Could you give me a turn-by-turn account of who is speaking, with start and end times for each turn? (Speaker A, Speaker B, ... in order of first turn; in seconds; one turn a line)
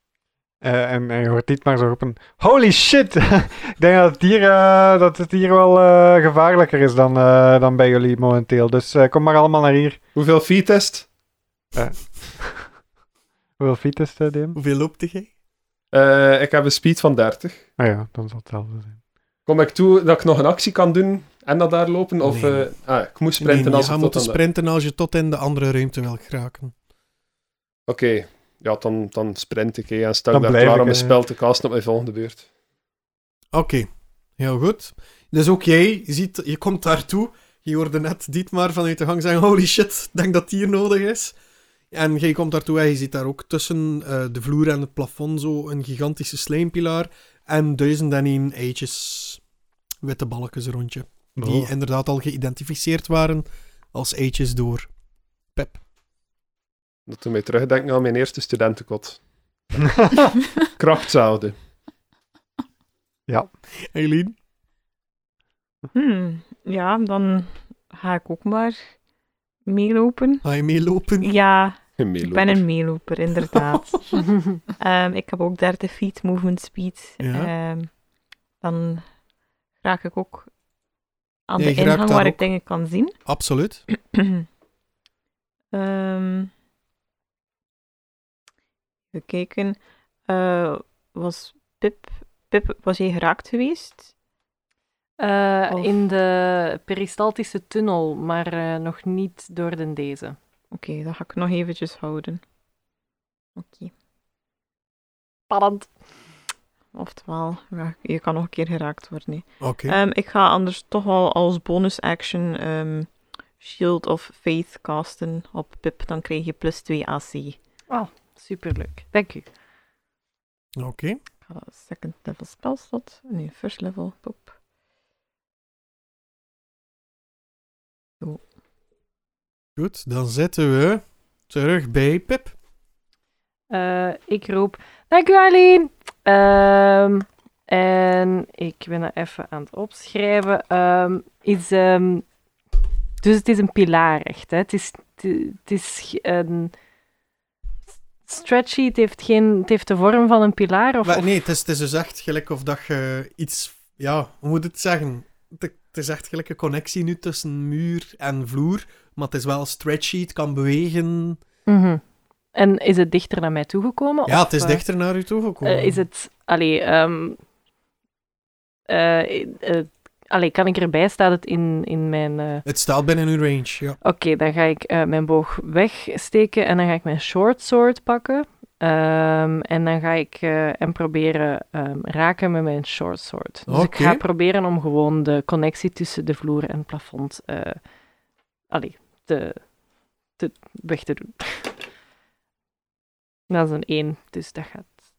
Speaker A: 0.6-10.0
Speaker B: 10.1-11.1
Speaker A: 11.8-12.8
Speaker A: 13.6-14.6
Speaker C: 14.6-15.3
Speaker B: 15.9-17.6
Speaker A: 17.8-19.0
Speaker B: 19.4-24.4
Speaker C: 22.2-22.7
Speaker C: 23.2-26.7
Speaker B: 27.9-32.4
Speaker A: 30.3-31.1
Speaker C: 33.5-41.4
Speaker C: 41.9-49.4
Speaker C: 50.0-54.9
Speaker A: 51.4-51.7
Speaker C: 55.5-55.8
Speaker B: 57.1-59.2
Speaker B: 60.8-61.5
Speaker C: 63.8-64.3
Speaker D: 65.9-68.9
Speaker D: 69.7-70.4
Speaker C: 70.4-71.3
Speaker D: 71.2-77.9
Speaker B: 72.0-72.6
Speaker C: 77.2-77.5
Speaker D: 78.6-79.0
Speaker D: 79.8-80.5
Speaker D: 81.5-83.1
Speaker C: 81.6-82.5
Speaker C: 83.3-83.9
Speaker D: 84.0-84.4
Speaker D: 85.7-86.5
Speaker D: 89.1-94.1
Speaker E: 95.2-100.4
Speaker D: 95.7-96.0
Speaker D: 100.7-102.4
Speaker D: 103.6-103.9
Speaker E: 105.5-105.9
Speaker D: 106.9-117.6
Speaker C: 109.6-110.0
Speaker E: 117.9-119.5
Speaker C: 120.8-121.2
Speaker D: 121.5-124.5
Speaker C: 129.8-132.5
Speaker E: 133.7-142.2
Speaker E: 143.2-146.7
Speaker E: 148.3-151.3
Speaker C: 151.1-161.4
Speaker E: 161.7-162.0
Speaker E: 162.5-164.8
Speaker C: 164.3-166.0
Speaker E: 165.6-167.4
Speaker E: 168.9-172.6
Speaker C: 172.6-174.0
Speaker E: 174.0-187.8
Speaker C: 183.7-184.2
Speaker E: 188.7-189.7
Speaker E: 190.4-191.7
Speaker E: 193.5-195.0